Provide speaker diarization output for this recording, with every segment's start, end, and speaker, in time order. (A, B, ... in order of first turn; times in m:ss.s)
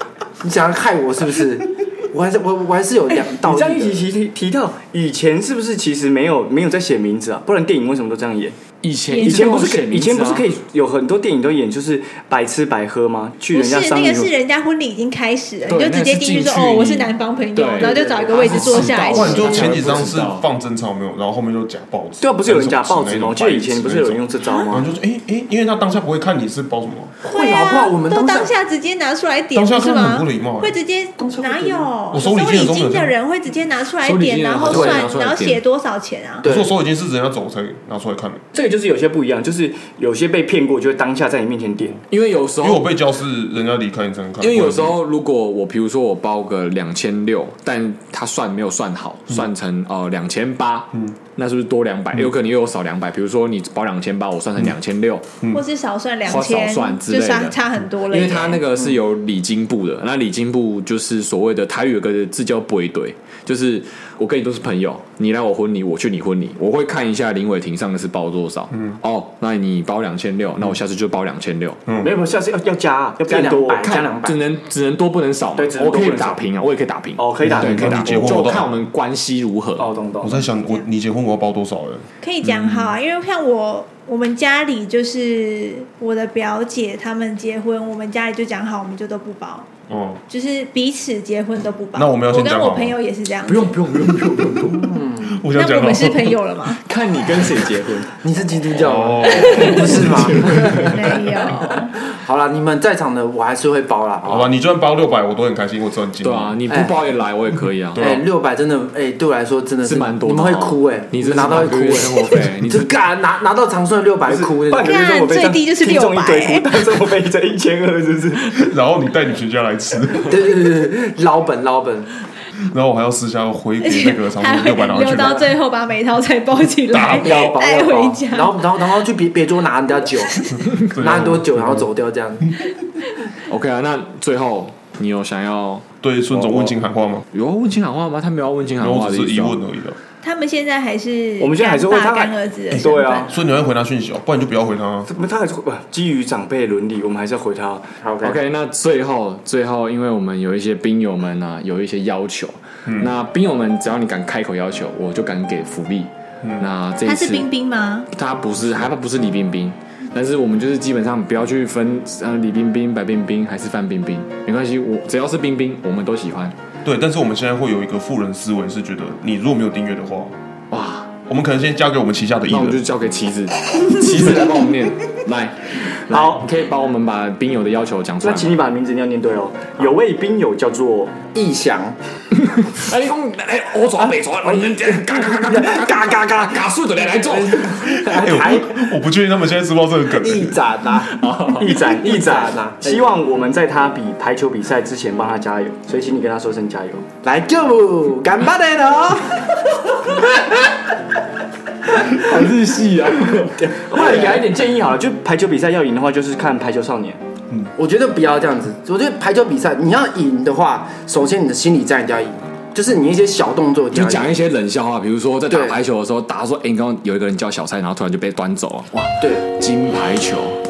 0:00.4-0:04.1 A
0:03.2-0:08.6 B
0:08.8-0:10.5 C
0:09.1-0:09.6 D
0:09.2-0:14.3 B
0:13.5-0:19.8 D
0:15.6-0:20.5 C
0:17.8-0:18.6 B
0:18.9-0:27.1 E
0:22.2-0:24.9 B
0:27.2-0:28.5 A
0:27.3-0:36.5 D
0:29.5-0:30.7 E
0:31.3-0:31.8 B
0:31.5-0:31.7 A
0:32.1-0:33.1 E
0:34.0-0:35.6 C
0:36.4-0:36.7 A
0:36.4-0:38.4 E
0:38.5-0:42.0 B
0:42.1-0:42.9 C
0:42.6-0:45.0 E
0:44.4-0:55.3 C
0:55.5-0:58.6 D
0:56.3-1:11.8 C
1:11.9-1:12.2 E
1:12.0-1:14.1 B
1:13.2-1:14.4 A
1:13.8-1:19.9 C
1:15.6-1:16.4 B
1:17.2-1:18.4 B
1:17.4-1:18.7 E
1:19.8-1:20.4 B
1:20.2-1:22.9 E
1:20.5-1:20.9 D
1:22.2-1:29.7 D
1:29.9-1:30.2 E
1:30.3-1:33.8 D
1:32.0-1:33.0 E
1:33.5-1:35.0 C
1:34.7-1:35.4 A
1:35.3-1:36.4 E
1:35.5-1:36.8 D
1:36.8-1:38.1 C
1:38.2-1:44.5 A
1:38.8-1:40.2 E
1:39.4-1:41.5 C
1:39.4-1:39.8 D
1:40.8-1:41.9 D
1:44.2-1:46.6 E
1:46.2-1:48.1 C
1:46.7-1:47.0 A
1:48.0-1:48.2 E
1:48.0-1:55.0 A
1:49.8-1:52.9 C
1:54.3-1:58.7 B
1:54.8-1:56.7 D
1:58.6-2:00.4 E
2:00.2-2:02.1 A
2:02.7-2:05.5 E
2:03.8-2:08.6 D
2:06.9-2:07.5 E
2:07.0-2:12.5 A
2:10.9-2:11.8 E
2:13.5-2:16.8 C
2:16.0-2:17.3 E
2:17.3-2:19.6 C
2:18.8-2:20.0 E
2:20.2-2:23.4 D
2:21.4-2:23.3 B
2:22.7-2:25.1 E
2:25.1-2:27.9 B
2:28.0-2:28.4 A
2:28.2-2:37.5 C
2:32.9-2:33.1 E
2:37.0-2:38.1 D
2:38.1-2:46.6 C
2:46.8-2:50.3 E
2:50.7-2:51.1 C
2:51.3-2:52.8 E
2:52.5-2:58.6 C
2:56.1-2:56.5 B
2:58.2-3:01.2 B
3:01.3-3:02.0 A
3:02.3-3:08.2 C
3:04.1-3:08.9 A
3:08.1-3:10.6 E
3:10.2-3:13.1 A
3:11.1-3:11.7 C
3:11.6-3:17.1 B
3:17.2-3:20.8 A
3:21.9-3:23.9 C
3:23.7-3:27.2 B
3:23.8-3:24.4 A
3:27.8-3:34.4 A
3:33.9-3:40.6 C
3:35.5-3:35.8 A